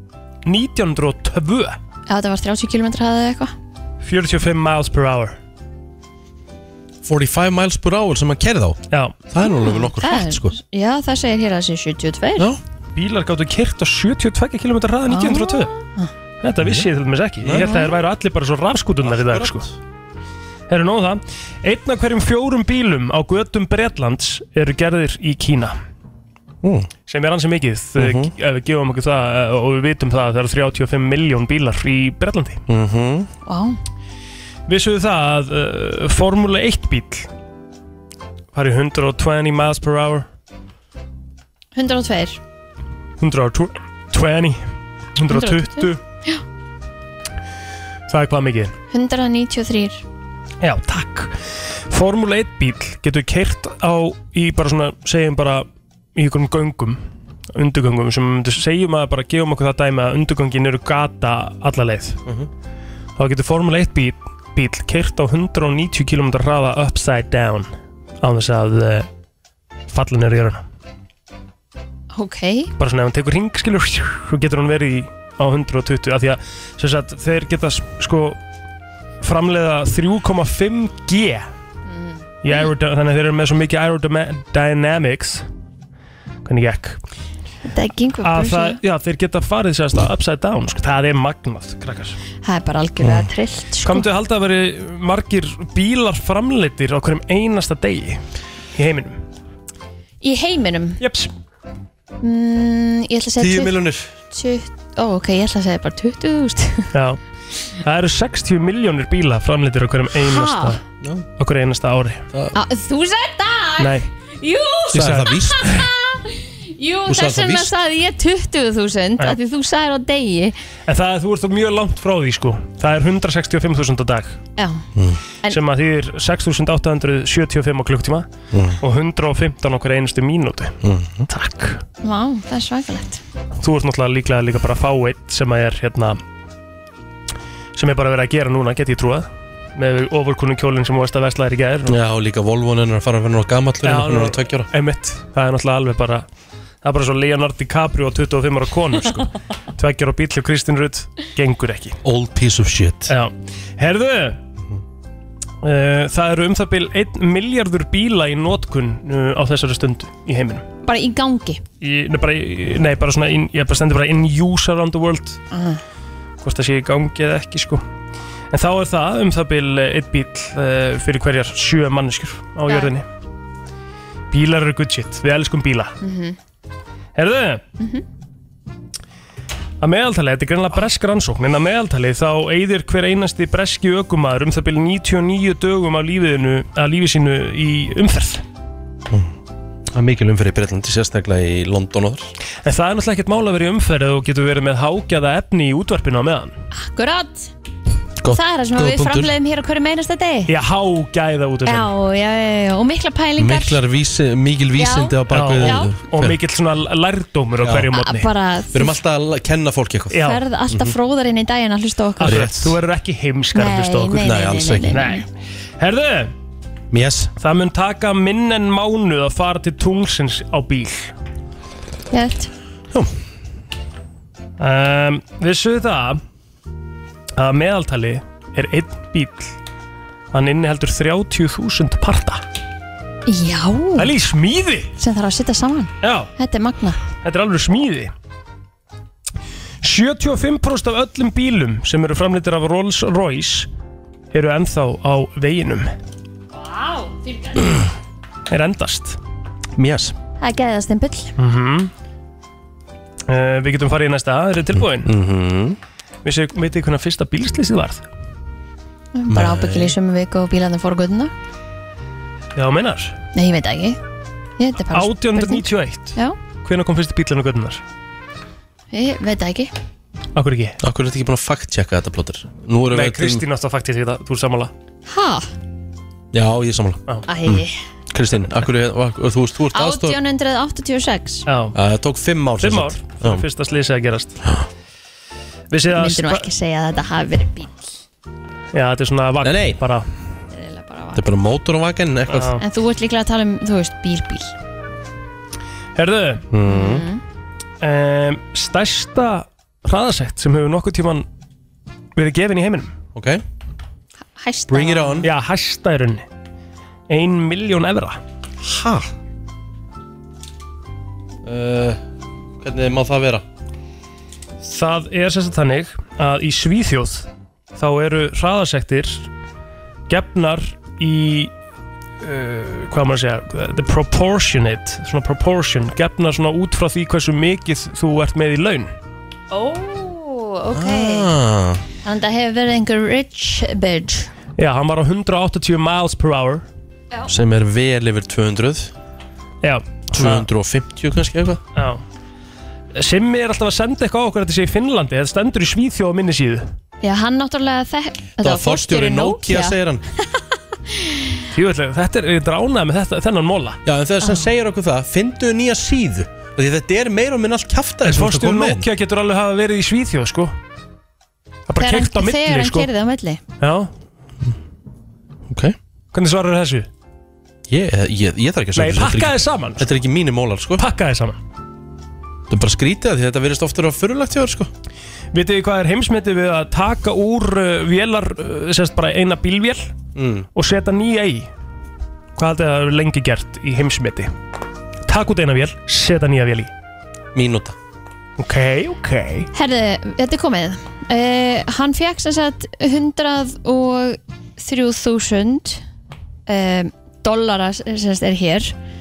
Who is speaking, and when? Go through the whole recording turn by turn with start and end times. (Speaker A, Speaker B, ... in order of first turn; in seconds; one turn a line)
Speaker A: 0.5-1.8
Speaker B: 2.1-3.5
Speaker A: 4.0-5.4
Speaker C: 7.0-10.6
Speaker B: 9.4-12.5
Speaker A: 12.9-15.7
Speaker B: 15.1-16.1
Speaker A: 16.4-19.7
Speaker C: 17.4-17.9
Speaker B: 17.6-17.9
Speaker C: 19.1-19.7
Speaker A: 20.7-25.8
Speaker C: 26.6-26.9
Speaker A: 27.1-32.6
Speaker C: 28.0-28.3
Speaker C: 32.7-33.3
Speaker B: 33.5-33.8
Speaker A: 34.7-37.3
Speaker A: 38.5-40.3
Speaker B: 41.7-42.4
Speaker A: 43.2-44.6
Speaker A: 45.2-46.0
Speaker B: 45.3-46.4
Speaker A: 48.1-48.7
Speaker B: 48.9-50.0
Speaker A: 50.6-51.3
Speaker A: 51.9-57.0
Speaker A: 57.5-62.2
Speaker A: 63.2-67.7
Speaker A: 68.2-69.1
Speaker A: 69.9-70.6
Speaker B: 72.1-72.7
Speaker A: 72.8-78.4
Speaker A: 79.2-81.5
Speaker B: 81.9-82.7
Speaker A: 82.4-85.4
Speaker A: 86.5-87.0
Speaker B: 87.7-88.8
Speaker A: 88.2-92.2
Speaker B: 92.4-94.1
Speaker C: 93.0-93.3
Speaker A: 93.8-98.2
Speaker A: 98.8-99.2
Speaker B: 100.2-101.0
Speaker A: 101.0-101.3
Speaker B: 102.2-103.8
Speaker C: 103.4-104.1
Speaker B: 104.3-106.9
Speaker A: 106.9-107.2
Speaker A: 107.8-110.8
Speaker B: 110.2-110.8
Speaker C: 111.0-111.3
Speaker A: 111.4-112.2
Speaker B: 112.5-120.6
Speaker A: 113.8-114.1
Speaker A: 114.9-115.3
Speaker C: 114.9-115.9
Speaker C: 117.1-117.7
Speaker A: 120.9-124.4
Speaker B: 124.6-124.8
Speaker C: 125.0-125.2
Speaker A: 125.5-128.3
Speaker C: 128.5-128.8
Speaker A: 128.8-130.8
Speaker C: 130.8-131.3
Speaker A: 131.3-131.8
Speaker B: 132.0-133.2
Speaker A: 133.6-136.2
Speaker A: 137.8-142.0
Speaker C: 141.9-144.7
Speaker A: 143.8-146.3
Speaker A: 146.8-152.0
Speaker C: 152.0-153.1
Speaker A: 153.1-154.4
Speaker A: 155.6-160.7
Speaker B: 160.8-161.6
Speaker A: 161.8-165.4
Speaker B: 165.5-165.8
Speaker A: 166.4-167.8
Speaker A: 168.5-173.1
Speaker B: 172.7-172.9
Speaker A: 174.3-176.0
Speaker B: 176.0-176.4
Speaker A: 177.2-177.6
Speaker A: 179.8-188.4
Speaker C: 189.9-192.3
Speaker A: 192.6-196.6
Speaker B: 196.7-197.5
Speaker C: 198.2-199.3
Speaker B: 198.3-200.5
Speaker A: 200.5-201.9
Speaker B: 201.7-203.8
Speaker C: 203.4-206.4
Speaker B: 204.8-205.9
Speaker A: 205.3-208.3
Speaker C: 207.6-207.9
Speaker B: 207.9-209.0
Speaker C: 208.7-211.0
Speaker A: 210.1-210.4
Speaker B: 210.2-212.4
Speaker C: 212.2-212.8
Speaker A: 212.2-214.3
Speaker B: 213.5-215.2
Speaker C: 214.2-215.1
Speaker A: 214.9-215.3
Speaker A: 215.8-216.3
Speaker C: 216.9-217.3
Speaker A: 217.4-221.1
Speaker B: 222.1-222.5
Speaker A: 224.6-226.2
Speaker A: 227.4-229.5
Speaker A: 230.3-232.4
Speaker B: 233.3-234.1
Speaker A: 234.0-234.9
Speaker B: 235.0-237.0
Speaker A: 236.0-236.3
Speaker A: 237.2-238.1
Speaker A: 239.8-243.7
Speaker A: 244.3-245.9
Speaker B: 246.5-247.9
Speaker A: 248.5-249.2
Speaker C: 249.8-250.2
Speaker B: 250.4-251.3
Speaker A: 251.4-251.9
Speaker A: 253.3-255.1
Speaker C: 254.8-255.8
Speaker A: 256.2-258.1
Speaker B: 259.1-261.3
Speaker C: 259.3-260.0
Speaker A: 262.6-263.2
Speaker B: 263.3-264.0
Speaker B: 264.6-266.4
Speaker A: 264.9-267.8
Speaker B: 268.9-269.7
Speaker A: 270.4-270.8
Speaker C: 270.8-273.4
Speaker A: 272.9-274.7
Speaker B: 275.1-275.5
Speaker C: 276.3-280.2
Speaker B: 277.3-277.8
Speaker B: 279.7-281.5
Speaker A: 281.5-281.8
Speaker C: 281.7-283.4
Speaker A: 282.6-284.4
Speaker A: 285.7-286.5
Speaker B: 285.9-287.8
Speaker A: 288.7-290.1
Speaker C: 289.4-289.8
Speaker B: 290.5-291.2
Speaker C: 291.1-292.6
Speaker A: 292.3-292.6
Speaker B: 292.6-294.5
Speaker A: 296.0-296.5
Speaker C: 296.5-297.1
Speaker B: 296.7-297.2
Speaker A: 297.8-301.3
Speaker A: 302.2-302.9
Speaker C: 303.1-303.4
Speaker B: 304.4-305.3
Speaker C: 304.7-305.3
Speaker A: 305.2-306.2
Speaker A: 307.1-308.2
Speaker C: 308.6-309.1
Speaker C: 311.4-312.0
Speaker C: 312.6-313.4
Speaker A: 314.6-319.3
Speaker A: 320.1-321.5
Speaker A: 322.2-328.9
Speaker B: 329.5-331.3
Speaker C: 330.7-331.8
Speaker B: 332.0-334.3
Speaker A: 334.6-336.6
Speaker C: 337.3-338.9
Speaker A: 339.6-340.5
Speaker C: 340.1-341.6
Speaker A: 341.8-342.0
Speaker A: 342.9-346.6
Speaker B: 347.0-349.8
Speaker C: 348.4-350.0
Speaker B: 350.9-351.4
Speaker A: 351.5-353.8
Speaker C: 353.9-358.9
Speaker A: 358.1-360.5
Speaker A: 361.7-362.9
Speaker B: 361.8-363.4
Speaker A: 363.6-363.9
Speaker C: 365.5-365.8
Speaker A: 366.1-366.9
Speaker C: 367.7-370.8
Speaker A: 368.8-369.9
Speaker A: 370.8-371.4
Speaker C: 372.5-374.7
Speaker A: 375.3-379.9
Speaker C: 380.1-380.5
Speaker A: 380.6-381.5
Speaker A: 382.4-384.3
Speaker A: 385.1-386.7
Speaker C: 387.3-387.8
Speaker A: 388.4-389.5
Speaker B: 389.5-395.8
Speaker B: 396.5-398.7